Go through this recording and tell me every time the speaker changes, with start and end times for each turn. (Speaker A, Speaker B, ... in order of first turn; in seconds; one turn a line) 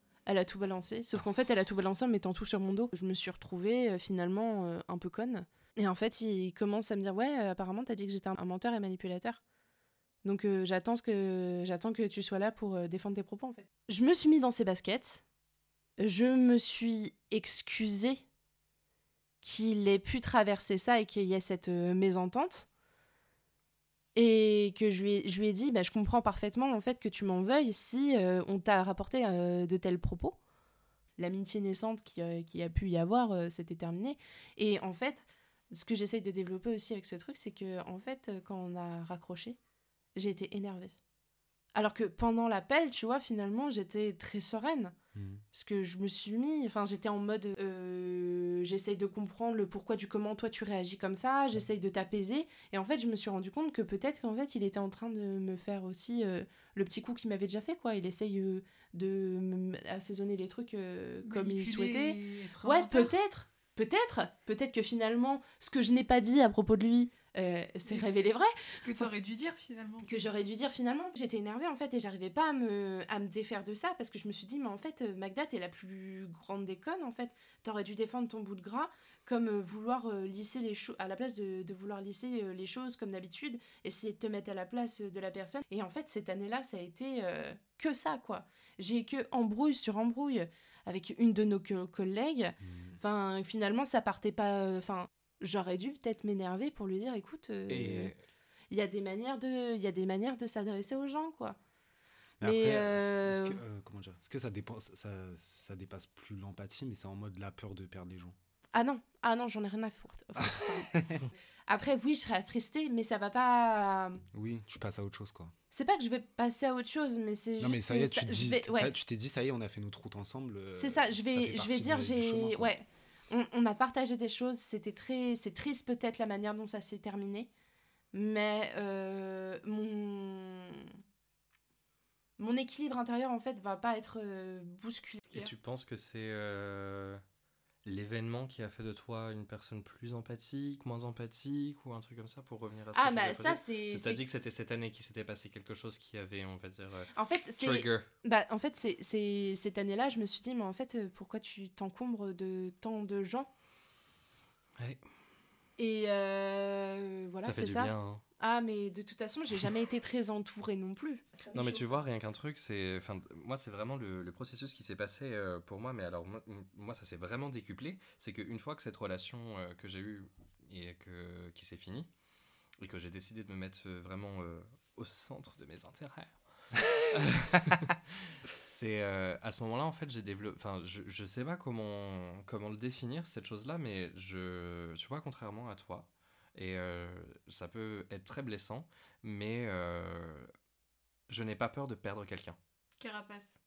Speaker A: 0.3-9.4
Speaker A: 10.2-15.2
Speaker A: 16.0-18.2
Speaker A: 19.4-22.7
Speaker A: 24.1-30.4
Speaker A: 31.2-39.6
Speaker A: 40.1-41.0
Speaker A: 41.8-45.0
Speaker B: 45.1-45.4
Speaker A: 45.5-69.1
Speaker C: 61.2-63.1
Speaker C: 67.9-68.1
Speaker C: 68.8-70.1
Speaker A: 70.0-98.1
Speaker B: 92.6-93.0
Speaker D: 97.7-98.2
Speaker B: 97.7-98.1
Speaker A: 98.7-101.6
Speaker B: 102.4-108.4
Speaker A: 102.4-103.6
Speaker A: 108.7-111.0
Speaker B: 110.4-111.2
Speaker A: 111.7-114.2
Speaker B: 114.3-115.5
Speaker A: 115.7-118.9
Speaker B: 117.6-122.7
Speaker A: 120.8-127.5
Speaker A: 128.1-130.9
Speaker A: 132.4-135.3
Speaker D: 135.3-137.2
Speaker D: 137.8-148.1
Speaker A: 142.9-144.2
Speaker A: 147.1-153.5
Speaker A: 155.8-161.9
Speaker D: 157.4-158.2
Speaker D: 161.5-172.1
Speaker D: 172.8-190.5
Speaker D: 191.3-192.6
Speaker C: 193.0-193.6